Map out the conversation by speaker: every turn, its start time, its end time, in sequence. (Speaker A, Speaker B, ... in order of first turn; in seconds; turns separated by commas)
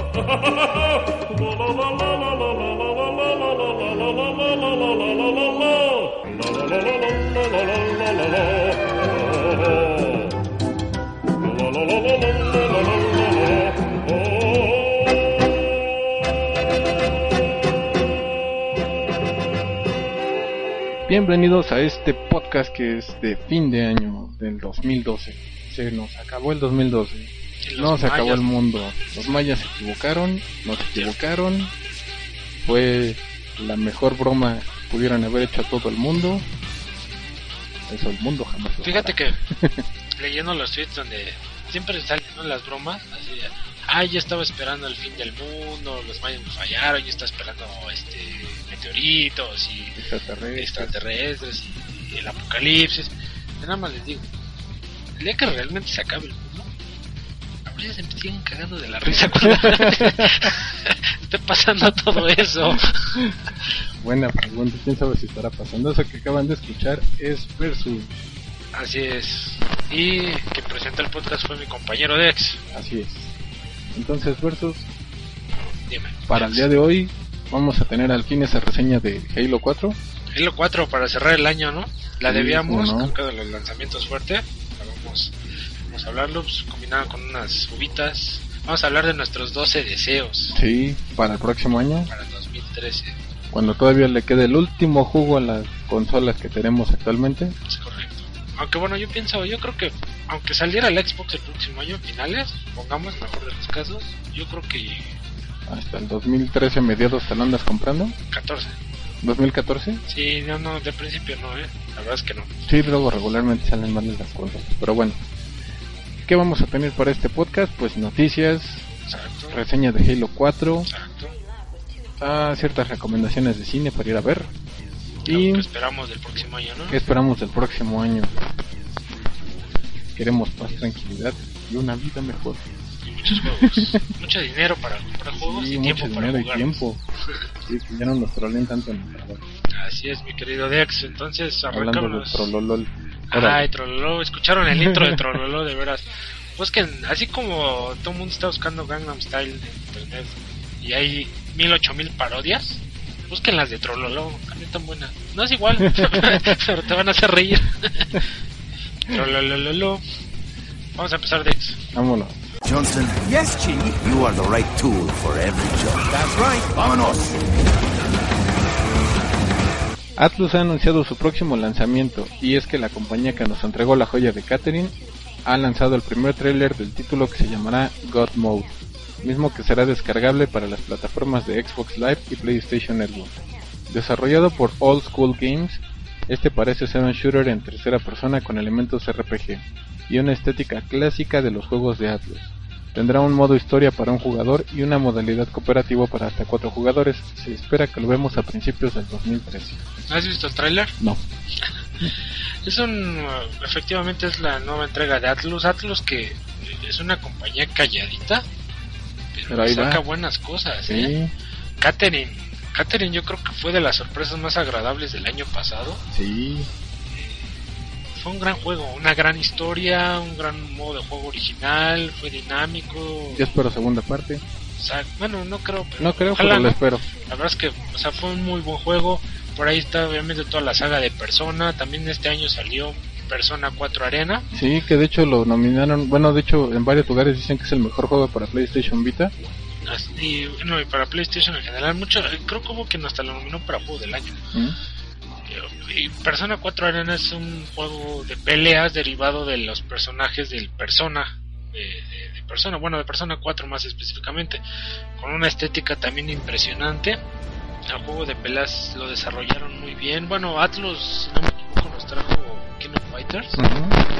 Speaker A: 21.1-31.7, Speaker B: 27.6-28.5, Speaker B: 29.2-29.4, Speaker B: 30.8-31.1, Speaker A: 32.6-36.5, Speaker A: 37.9-39.8, Speaker B: 38.8-39.4, Speaker B: 40.2-50.0, Speaker A: 50.0-51.0, Speaker B: 50.5-54.3, Speaker B: 55.2-56.7, Speaker B: 57.6-63.2, Speaker A: 59.3-60.5, Speaker A: 64.0-68.1, Speaker B: 68.7-72.6, Speaker A: 72.7-73.3, Speaker A: 73.9-74.9, Speaker B: 75.9-76.7, Speaker A: 76.3-80.0, Speaker B: 80.3-85.3, Speaker A: 82.3-83.1, Speaker B: 85.9-90.6, Speaker A: 90.5-92.1, Speaker B: 92.1-93.2, Speaker A: 93.5-97.5, Speaker B: 97.7-105.2, Speaker A: 105.7-108.2, Speaker B: 108.3-108.8, Speaker A: 109.2-110.0, Speaker B: 110.1-112.5, Speaker A: 112.7-115.2, Speaker A: 116.2-118.8, Speaker B: 119.0-119.6, Speaker A: 119.5-120.9, Speaker B: 120.9-121.3, Speaker A: 122.2-124.5, Speaker A: 125.2-125.7, Speaker B: 125.3-127.0, Speaker A: 126.9-128.4, Speaker A: 130.1-132.6, Speaker B: 133.2-136.8, Speaker A: 133.2-134.0, Speaker A: 135.3-137.0, Speaker A: 137.6-139.4, Speaker B: 139.7-142.5, Speaker A: 141.7-143.7, Speaker B: 143.3-146.0, Speaker A: 144.8-145.1, Speaker B: 146.6-158.2, Speaker A: 155.8-156.6, Speaker B: 159.1-160.0, Speaker B: 160.9-161.8, Speaker A: 161.9-162.3, Speaker C: 162.6-167.5, Speaker A: 170.2-199.8, Speaker B: 200.1-200.9, Speaker B: 202.6-208.5, Speaker B: 209.3-211.1, Speaker A: 209.5-210.0, Speaker A: 210.9-211.3, Speaker B: 211.8-216.0, Speaker A: 216.1-216.7, Speaker B: 217.1-217.5, Speaker B: 218.1-223.5, Speaker A: 223.3-224.4, Speaker B: 224.8-234.5, Speaker A: 226.0-227.0, Speaker A: 234.5-239.3, Speaker B: 239.8-244.4, Speaker B: 245.5-254.6, Speaker B: 255.2-257.2, Speaker B: 257.9-263.6, Speaker A: 263.6-264.0